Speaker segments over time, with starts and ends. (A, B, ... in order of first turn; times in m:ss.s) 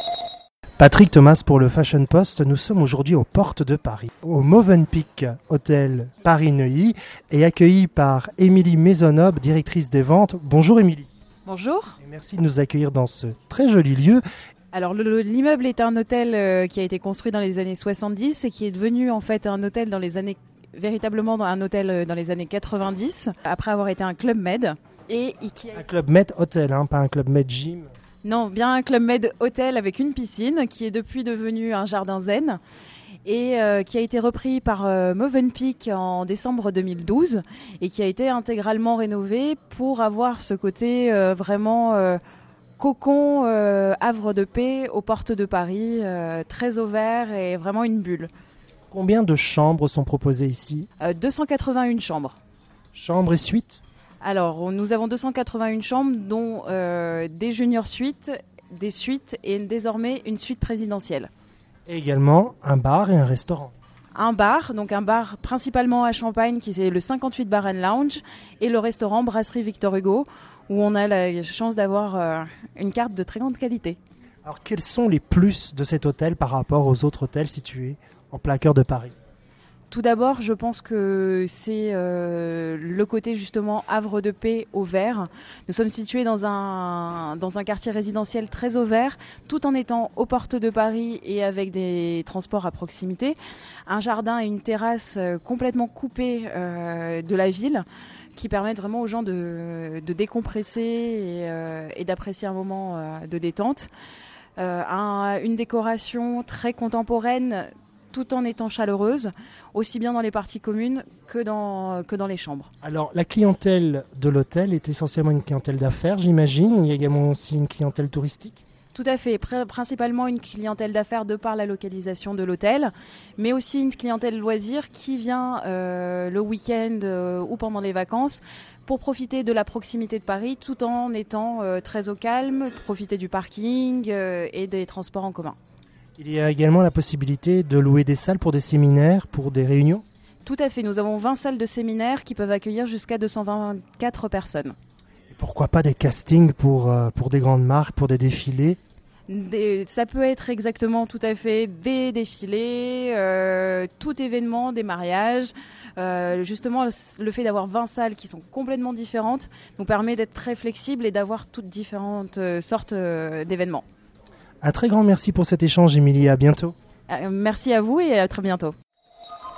0:00.8-0:11.1 A
0:11.5-0:12.0 B
0:12.0-0:14.2 A
0:14.7-0:25.8 B
0:25.7-0:27.9 A
0:28.2-0:32.6 B
0:33.3-0:42.2 B
0:42.8-0:48.3 B
0:48.9-0:50.9 A
0:51.0-0:52.4 B
0:52.9-0:53.8 A
0:54.2-1:01.3 B
1:01.9-1:03.7 A
1:04.2-1:14.0 B
1:14.4-1:19.1 A
1:19.9-1:33.4 B
1:33.9-1:37.8 B
1:38.4-1:43.9 B
1:44.6-1:52.7 B
1:52.8-1:58.6 A
1:58.9-2:15.6 B
2:16.2-2:20.0 A
2:20.4-2:24.8 B
2:25.3-2:28.8 A
2:29.3-2:43.8 B
2:44.6-2:46.8 A
2:47.1-2:48.7 B